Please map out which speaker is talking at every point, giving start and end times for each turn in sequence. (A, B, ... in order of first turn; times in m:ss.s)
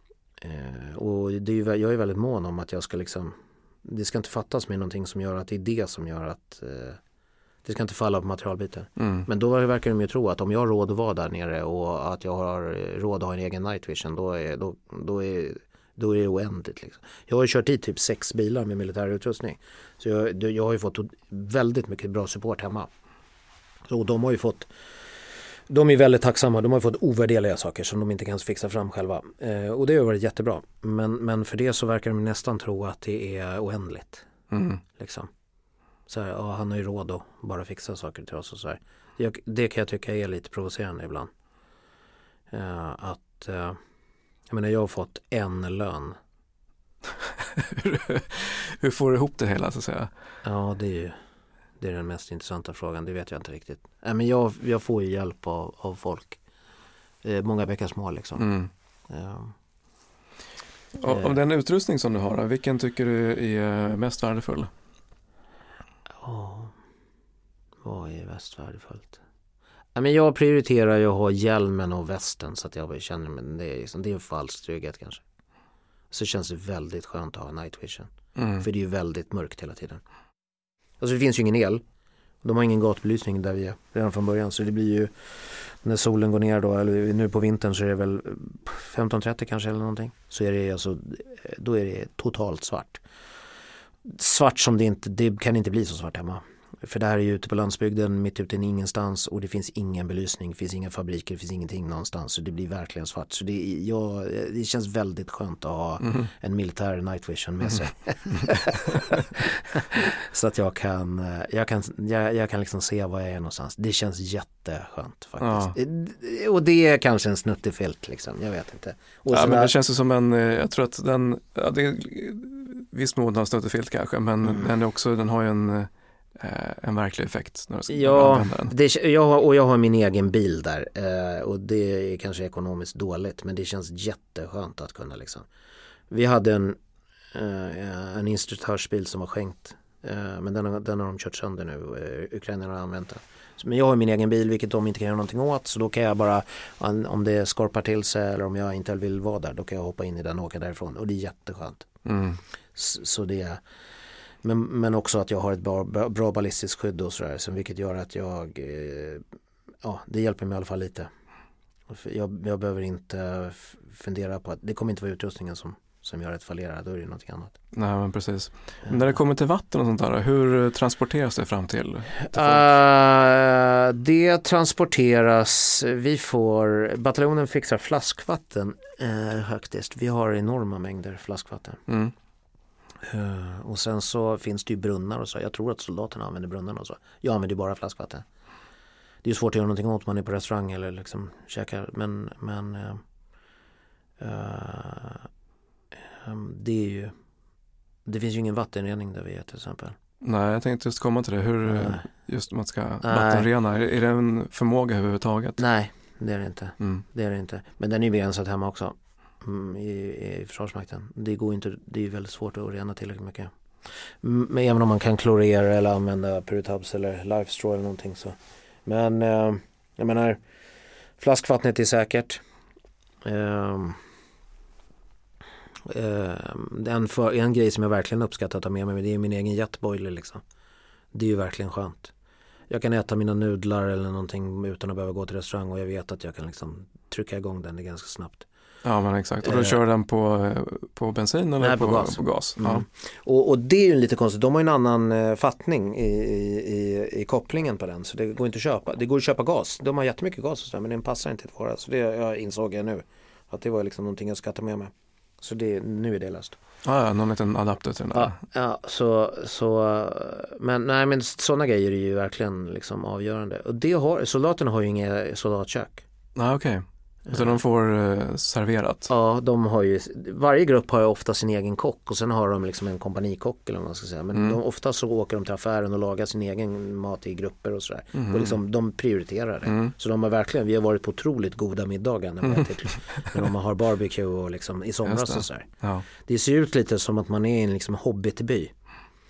0:00.4-0:07.0 A
0:07.6-0:22.9 A
0:09.0-0:09.3 B
0:23.9-0:24.7 A
0:25.7-0:34.3 A
0:34.5-0:34.8 B
0:35.0-0:35.3 A
0:36.1-0:41.3 A
0:42.5-0:43.8 A
0:44.5-0:46.2 A
0:47.2-0:50.1 B
0:50.4-0:51.2 A
0:51.8-0:56.4 A
0:57.2-0:58.5 A
0:58.4-0:58.7 B
0:59.1-0:59.5 A
1:01.0-1:04.7 B
1:06.2-1:06.7 A
1:07.8-1:09.2 A
1:10.0-1:15.2 A
1:16.1-1:20.0 A
1:18.4-1:18.6 B
1:21.0-1:21.8 A
1:22.4-1:33.0 A
1:34.0-1:59.7 A
1:55.4-1:55.8 B
1:59.3-2:08.7 B
2:07.9-2:15.5 A
2:16.1-2:16.8 A
2:17.3-2:31.9 A
2:32.0-2:32.4 B
2:32.8-2:33.6 A
2:34.4-2:39.2 A
2:39.8-2:41.1 A
2:41.9-2:47.5 A
2:47.7-2:52.8 B
2:52.2-3:01.8 A
3:01.9-3:02.1 B
3:03.0-3:08.2 A
3:09.2-3:13.0 A
3:14.2-3:15.3 A
3:16.1-3:17.1 A
3:18.0-3:20.0 A
3:20.2-3:25.6 B
3:21.7-3:22.0 A
3:23.0-3:23.5 A
3:25.6-3:33.5 A
3:34.2-3:40.4 A
3:41.2-3:42.4 A
3:43.2-3:44.0 A
3:45.9-3:50.4 A
3:51.1-3:52.1 A
3:52.7-3:58.5 A
3:58.8-4:02.8 B
3:59.4-3:59.8 A
4:01.6-4:16.6 A
4:16.8-4:18.4 B
4:18.1-4:26.0 A
4:26.4-4:29.1 B
4:29.1-4:45.7 A
4:38.2-4:38.6 B
4:39.7-4:39.9 B
4:45.0-4:46.1 B
4:46.2-4:48.7 A